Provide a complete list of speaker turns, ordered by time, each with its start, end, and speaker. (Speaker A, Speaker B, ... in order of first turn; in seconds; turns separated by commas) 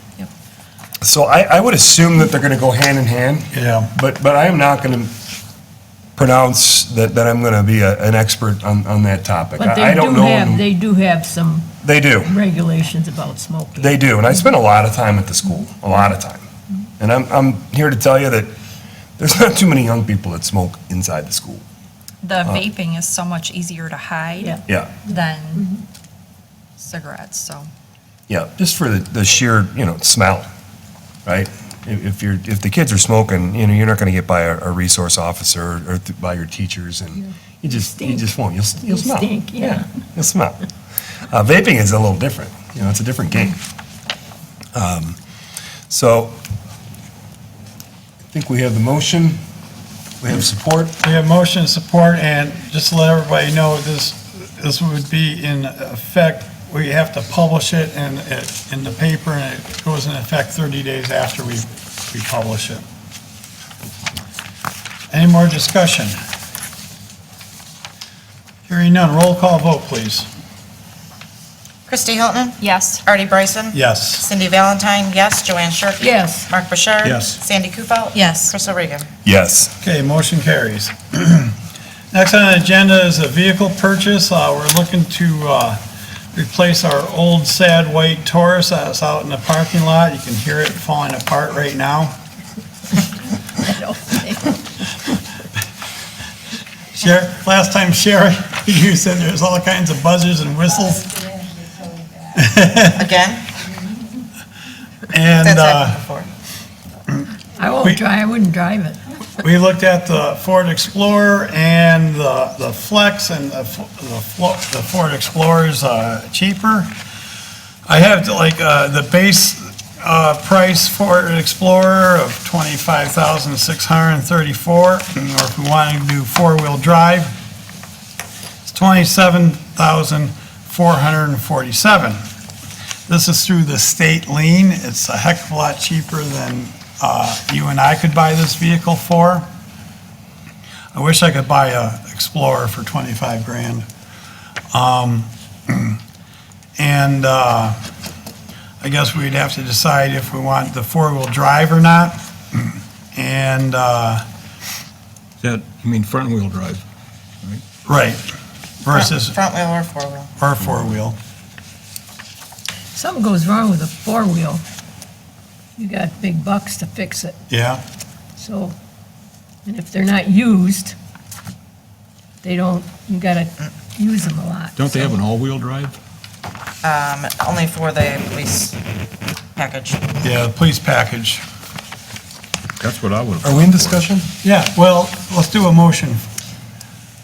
Speaker A: 1.0-5.1, Speaker B: 3.5-3.9, Speaker A: 6.2-10.7, Speaker C: 9.6-13.9, Speaker A: 11.8-12.3, Speaker A: 13.8-16.4, Speaker A: 17.0-18.5, Speaker A: 19.2-21.6, Speaker D: 22.2-25.5, Speaker C: 24.4-25.8, Speaker D: 26.8-27.7, Speaker A: 28.3-30.5, Speaker A: 31.2-40.6, Speaker C: 37.6-38.2, Speaker C: 38.8-39.8, Speaker A: 41.3-43.6, Speaker A: 44.7-45.2, Speaker A: 45.9-46.4, Speaker A: 48.3-49.4, Speaker A: 50.2-51.0, Speaker B: 51.0-62.8, Speaker B: 65.1-66.1, Speaker B: 68.7-70.3, Speaker E: 71.9-79.1, Speaker B: 73.7-74.3, Speaker C: 76.0-76.5, Speaker B: 77.0-77.4, Speaker A: 79.2-79.7, Speaker B: 79.8-81.5, Speaker B: 82.1-85.8, Speaker B: 86.3-92.2, Speaker C: 93.6-94.5, Speaker B: 96.9-101.3, Speaker B: 102.3-103.0, Speaker E: 102.9-103.5, Speaker B: 105.1-106.0, Speaker E: 105.3-106.3, Speaker C: 107.6-109.0, Speaker B: 109.4-116.9, Speaker B: 117.8-127.3, Speaker B: 128.6-132.2, Speaker B: 133.1-139.5, Speaker B: 140.9-143.8, Speaker B: 144.7-146.0, Speaker B: 146.8-147.8, Speaker B: 148.8-154.2, Speaker F: 155.4-156.8, Speaker B: 157.8-158.2, Speaker B: 158.8-159.4, Speaker E: 158.9-160.3, Speaker B: 160.4-161.2, Speaker C: 162.9-164.6, Speaker C: 165.8-167.4, Speaker B: 167.5-167.8, Speaker C: 168.4-168.8, Speaker C: 169.6-170.9, Speaker C: 172.4-175.0, Speaker F: 174.8-175.9, Speaker E: 176.8-178.8, Speaker E: 179.6-180.0, Speaker B: 180.2-181.4, Speaker F: 182.8-184.1, Speaker A: 183.4-184.3, Speaker B: 184.4-186.2